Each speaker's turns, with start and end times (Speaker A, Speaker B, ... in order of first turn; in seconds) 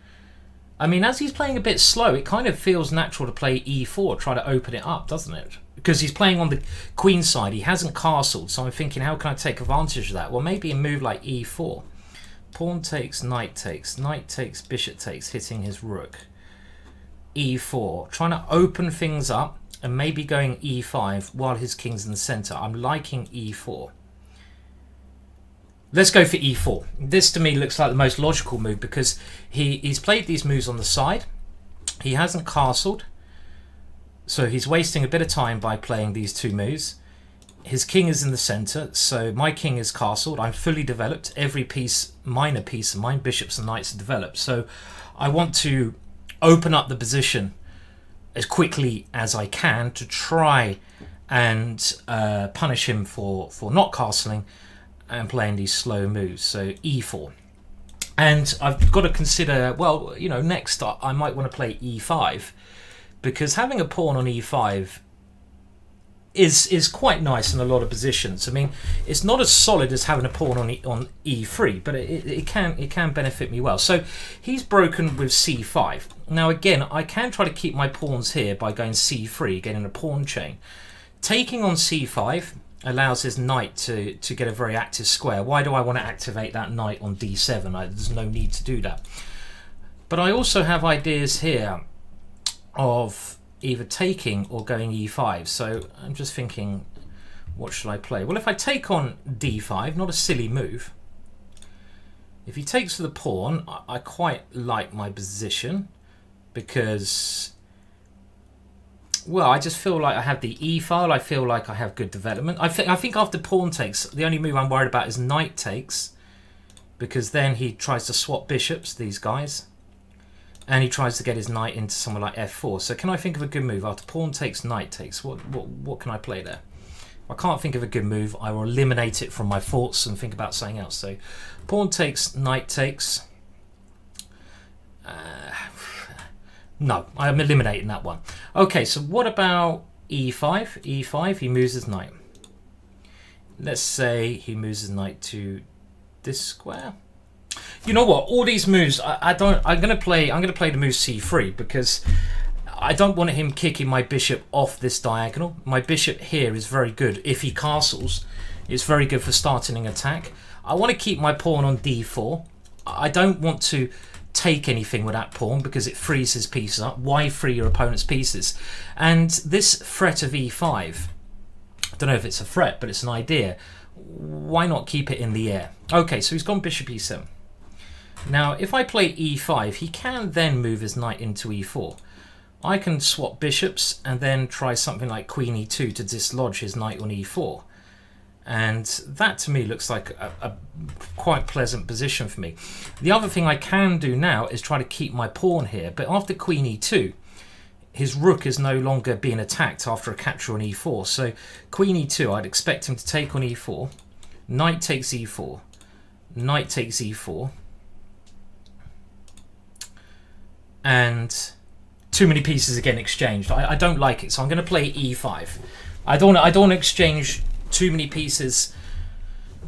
Speaker A: 0.8-11.8, 12.5-16.3, 17.4-23.9, 25.9-31.3, 32.0-33.1, 34.3-37.0, 37.6-47.5, 48.4-50.8, 51.3-54.5, 55.1-57.3, 58.2-62.5, 63.2-65.0, 66.3-80.6, 81.2-89.0, 90.1-91.8, 92.8-96.9, 97.6-100.9, 102.5-105.9, 106.5-107.5, 109.3-116.1, 117.0-119.7, 120.7-126.6, 127.3-133.2, 135.1-136.2, 136.8-142.1, 143.6-145.6, 146.2-147.0, 147.8-152.0, 152.7-171.1, 172.0-177.3, 178.3-182.0, 182.6-187.7, 188.5-197.2, 197.9-203.9, 204.5-205.6, 206.3-207.5, 210.8-211.6, 212.1-218.7